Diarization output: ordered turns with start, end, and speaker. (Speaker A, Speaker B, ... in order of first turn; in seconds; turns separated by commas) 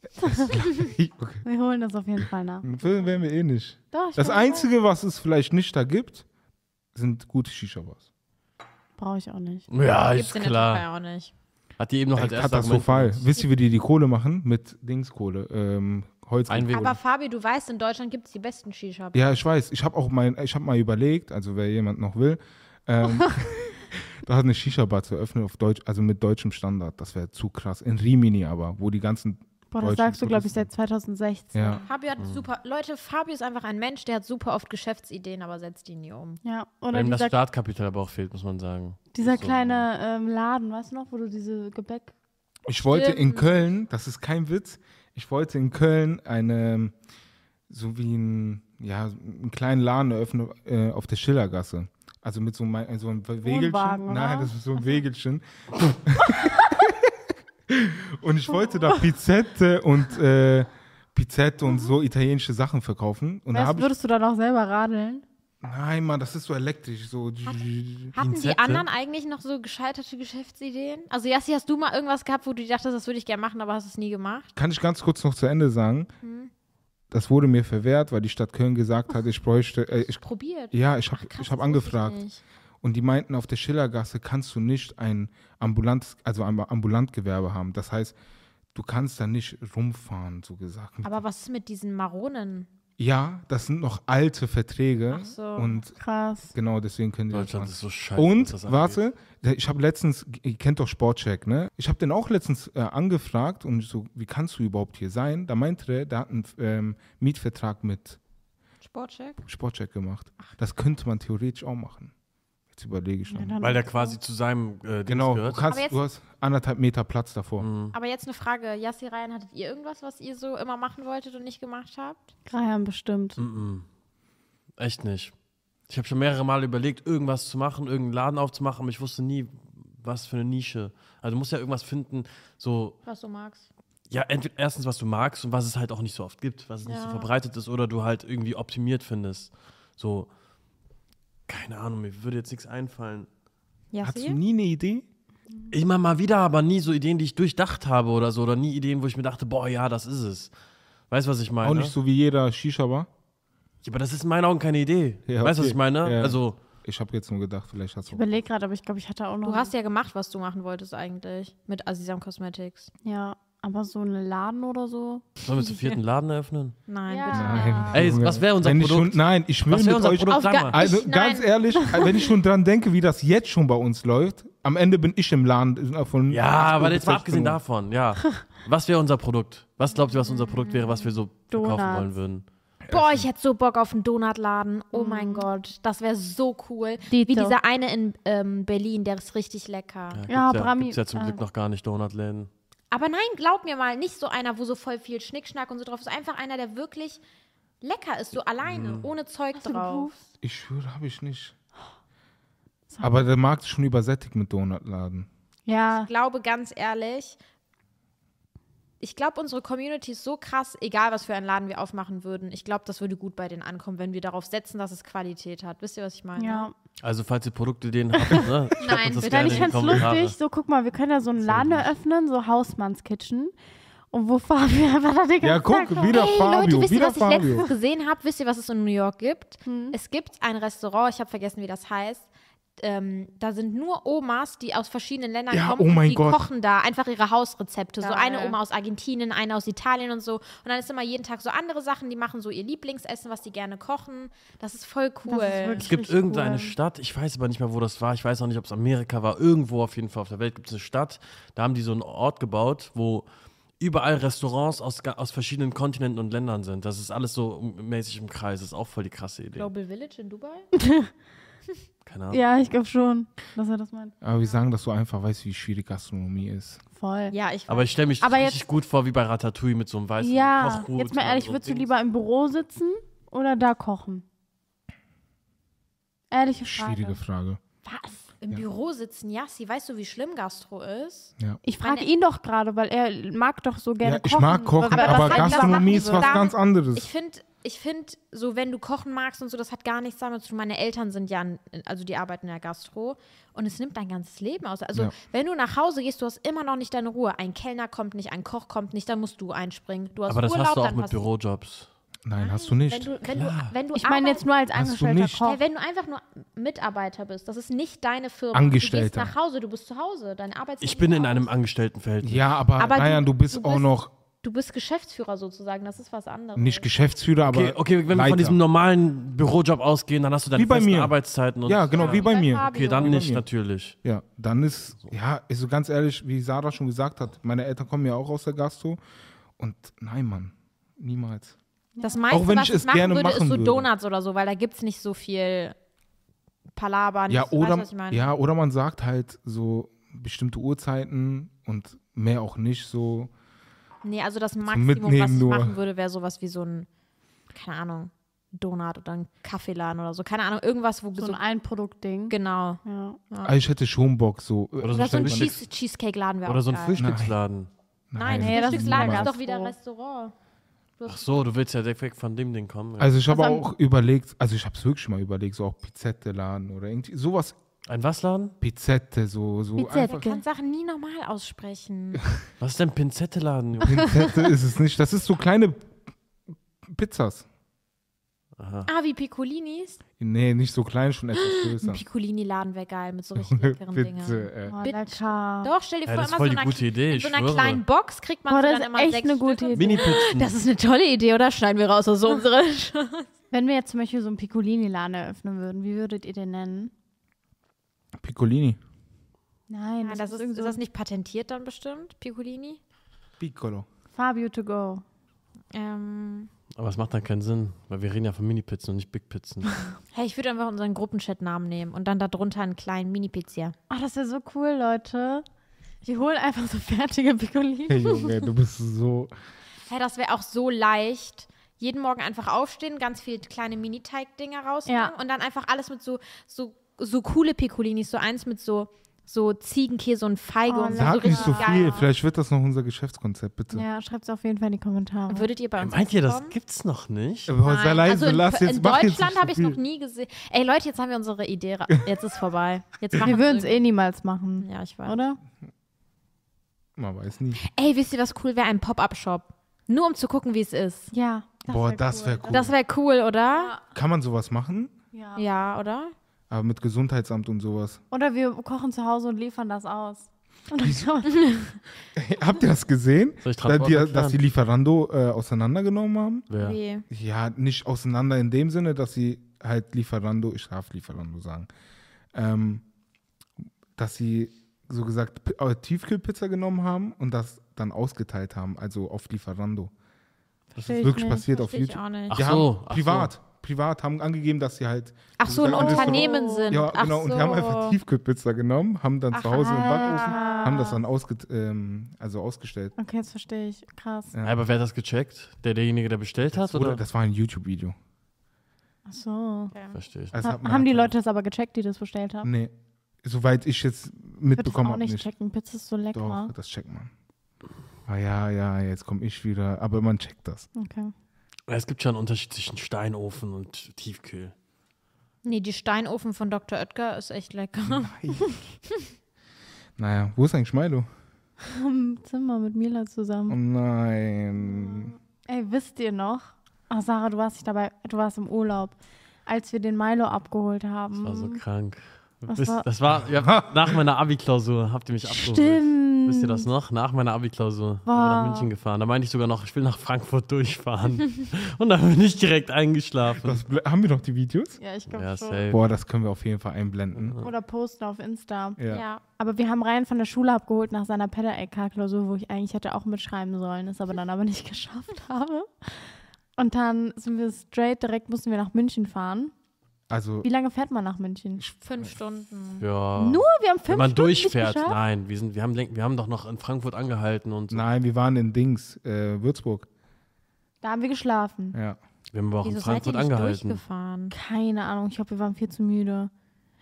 Speaker A: 0.2-0.7, Speaker B: 0.2-1.4, Speaker A: 1.4-2.7, Speaker B: 2.6-6.2, Speaker A: 3.9-4.7, Speaker B: 6.9-8.0, Speaker A: 9.0-9.7, Speaker C: 9.7-10.8, Speaker D: 10.1-11.3, Speaker C: 11.8-13.3, Speaker B: 12.2-16.9, Speaker C: 16.5-17.0, Speaker D: 16.7-19.2, Speaker B: 19.1-30.7, Speaker A: 29.7-31.8, Speaker B: 31.5-31.8, Speaker D: 31.9-36.4, Speaker C: 32.2-32.4, Speaker A: 36.4-37.4, Speaker C: 36.9-39.9, Speaker A: 39.1-42.1, Speaker B: 42.7-46.9, Speaker D: 42.8-43.5, Speaker B: 47.7-57.2, Speaker A: 53.4-54.6, Speaker B: 57.7-63.9, Speaker A: 63.5-65.2, Speaker B: 65.6-68.2, Speaker D: 67.5-74.5, Speaker C: 68.2-68.9, Speaker B: 74.5-76.1, Speaker D: 76.2-76.5, Speaker B: 77.1-82.2, Speaker D: 80.2-82.4, Speaker B: 82.8-88.2, Speaker B: 88.7-91.2, Speaker D: 91.0-92.7, Speaker B: 93.0-96.0, Speaker D: 95.1-95.8, Speaker A: 96.0-96.5, Speaker B: 96.5-108.2, Speaker C: 97.3-99.0, Speaker D: 108.8-109.4, Speaker B: 109.5-112.1, Speaker B: 112.7-113.6, Speaker A: 113.3-114.2, Speaker C: 113.6-115.7, Speaker B: 115.1-117.7, Speaker D: 115.7-116.0, Speaker C: 117.6-118.0, Speaker D: 117.9-122.3, Speaker A: 122.5-123.4, Speaker C: 123.4-123.9, Speaker C: 124.8-125.3, Speaker C: 125.9-133.0, Speaker D: 133.1-133.7, Speaker C: 134.1-140.3, Speaker D: 136.8-137.3, Speaker C: 141.5-143.3, Speaker D: 143.9-144.4, Speaker B: 144.0-145.1, Speaker C: 145.7-150.5, Speaker C: 151.1-151.9, Speaker B: 151.6-153.1, Speaker C: 153.8-156.6, Speaker B: 155.3-158.2, Speaker A: 158.1-159.7, Speaker D: 159.4-162.9, Speaker A: 163.0-165.3, Speaker C: 165.4-166.8, Speaker D: 165.6-165.9, Speaker D: 166.9-168.1, Speaker A: 167.1-168.0, Speaker B: 167.3-177.6, Speaker C: 167.9-170.8, Speaker D: 170.3-172.0, Speaker C: 176.3-182.5, Speaker D: 180.0-181.2, Speaker A: 181.5-182.1, Speaker B: 182.9-183.2, Speaker D: 182.9-190.2, Speaker A: 184.9-185.5, Speaker A: 187.1-187.6, Speaker C: 190.1-192.5, Speaker A: 190.3-191.4, Speaker D: 192.9-197.2, Speaker D: 197.8-200.1, Speaker C: 198.6-199.1, Speaker A: 199.6-200.2, Speaker B: 200.4-201.6, Speaker A: 202.9-203.2, Speaker B: 203.0-205.3, Speaker A: 205.7-206.1, Speaker D: 205.9-207.4, Speaker D: 209.0-216.7, Speaker A: 216.4-216.7, Speaker C: 217.0-220.3, Speaker D: 218.8-220.1, Speaker A: 219.2-223.5, Speaker C: 221.5-221.8, Speaker A: 224.1-226.3, Speaker B: 225.4-227.7, Speaker D: 225.9-232.3, Speaker A: 229.7-230.0, Speaker D: 232.8-245.9, Speaker B: 235.5-236.5, Speaker A: 238.0-238.6, Speaker A: 245.3-246.8, Speaker C: 245.8-253.3, Speaker C: 253.8-259.7, Speaker D: 259.6-260.7, Speaker A: 260.8-261.1, Speaker C: 262.1-262.4, Speaker A: 262.3-264.1, Speaker B: 264.2-266.8, Speaker A: 267.0-267.4, Speaker D: 267.3-268.5, Speaker C: 267.7-271.9, Speaker A: 270.2-274.2, Speaker A: 276.3-277.2, Speaker B: 276.7-277.6, Speaker A: 277.9-278.3, Speaker D: 278.4-282.1, Speaker A: 281.6-286.4, Speaker B: 284.0-287.1, Speaker D: 284.9-301.2, Speaker C: 300.3-301.9, Speaker B: 302.2-303.1, Speaker D: 302.4-304.4, Speaker C: 303.2-303.8, Speaker A: 303.9-305.6, Speaker B: 304.7-305.5, Speaker D: 305.4-311.5, Speaker B: 308.5-309.3, Speaker C: 310.8-312.5, Speaker B: 312.2-314.1, Speaker D: 312.8-316.9, Speaker B: 316.6-318.6, Speaker C: 317.5-323.9, Speaker B: 320.6-323.4, Speaker D: 321.9-323.3, Speaker B: 324.0-329.0, Speaker B: 329.6-331.6, Speaker A: 332.0-332.2, Speaker D: 332.0-335.8, Speaker B: 332.3-333.9, Speaker D: 336.8-338.2, Speaker B: 337.3-343.3, Speaker D: 344.0-346.9, Speaker B: 344.7-345.8, Speaker D: 347.5-351.4, Speaker A: 351.2-353.2, Speaker D: 352.3-353.6, Speaker B: 353.4-355.6, Speaker C: 354.8-355.6, Speaker D: 354.9-357.1, Speaker C: 356.5-357.7, Speaker B: 357.0-357.4, Speaker B: 358.1-359.3, Speaker D: 358.2-360.3, Speaker A: 358.3-359.7, Speaker D: 361.0-361.4, Speaker C: 361.1-363.3, Speaker B: 363.0-367.6, Speaker A: 363.3-363.6, Speaker C: 367.9-368.6, Speaker B: 368.6-370.3, Speaker A: 369.8-370.4, Speaker D: 369.9-372.2, Speaker C: 372.6-374.2, Speaker B: 373.8-376.0, Speaker B: 376.9-377.5, Speaker C: 378.6-378.9, Speaker D: 378.9-380.0, Speaker B: 380.2-382.0, Speaker D: 381.4-393.3, Speaker B: 383.4-384.8, Speaker A: 384.7-385.7, Speaker C: 386.1-387.8, Speaker A: 388.5-390.2, Speaker C: 389.7-390.6, Speaker A: 393.5-396.9, Speaker B: 398.2-398.8, Speaker A: 399.7-400.8, Speaker D: 400.0-402.8, Speaker B: 403.4-403.9, Speaker A: 404.1-405.0, Speaker D: 405.7-406.5, Speaker C: 406.8-409.7, Speaker D: 410.1-413.8, Speaker A: 413.9-415.4, Speaker A: 416.0-418.4, Speaker B: 417.9-419.3, Speaker D: 419.9-432.1, Speaker A: 424.9-425.1, Speaker A: 430.7-432.1, Speaker B: 430.9-433.9, Speaker A: 433.7-435.5, Speaker D: 435.3-436.6, Speaker C: 435.8-437.5, Speaker B: 437.5-439.8, Speaker D: 437.6-443.8, Speaker A: 443.2-445.4, Speaker D: 444.6-445.2, Speaker B: 447.0-447.6, Speaker D: 447.6-451.1, Speaker A: 451.1-452.7, Speaker B: 451.7-452.7, Speaker D: 452.5-453.8, Speaker A: 453.5-453.8, Speaker B: 453.9-454.9, Speaker A: 455.1-455.5, Speaker D: 455.4-456.1, Speaker B: 456.5-458.0, Speaker A: 458.1-461.8, Speaker B: 460.8-461.1, Speaker B: 462.1-466.5, Speaker C: 463.4-464.4, Speaker C: 466.5-466.8, Speaker D: 466.6-467.1, Speaker B: 467.1-471.7, Speaker B: 472.3-472.8, Speaker B: 474.0-479.9, Speaker A: 480.8-481.4, Speaker B: 480.8-492.9, Speaker D: 481.4-482.4, Speaker C: 482.3-483.3, Speaker D: 485.4-488.0, Speaker A: 485.7-486.8, Speaker D: 489.3-490.9, Speaker A: 489.6-491.0, Speaker A: 493.0-494.3, Speaker C: 494.4-497.0, Speaker B: 496.5-498.0, Speaker A: 499.1-499.8, Speaker C: 499.9-500.4, Speaker B: 500.3-501.1, Speaker A: 500.4-502.5, Speaker B: 502.4-505.3, Speaker A: 504.6-506.5, Speaker B: 506.1-507.1, Speaker B: 508.1-510.7, Speaker A: 510.8-511.1, Speaker C: 511.7-514.5, Speaker D: 515.4-518.1, Speaker B: 517.9-518.5, Speaker B: 520.0-521.1, Speaker A: 521.6-523.6, Speaker B: 523.5-525.1, Speaker A: 524.8-531.6, Speaker C: 531.2-543.6, Speaker A: 532.5-532.9, Speaker B: 533.2-534.0, Speaker A: 535.3-536.7, Speaker A: 538.1-538.7, Speaker B: 543.3-544.8, Speaker A: 544.8-545.8, Speaker C: 545.1-545.8, Speaker B: 545.7-547.4, Speaker C: 547.2-547.5, Speaker A: 547.4-548.8, Speaker B: 548.8-549.0, Speaker D: 548.9-549.2, Speaker A: 549.4-559.5, Speaker B: 560.1-560.5, Speaker A: 560.4-561.6, Speaker B: 561.6-562.1, Speaker D: 561.8-562.9, Speaker C: 562.8-567.9, Speaker A: 563.2-565.0, Speaker B: 567.7-569.9, Speaker A: 570.8-571.8, Speaker B: 571.7-572.0, Speaker C: 572.3-573.8, Speaker D: 572.6-574.3, Speaker A: 574.3-576.3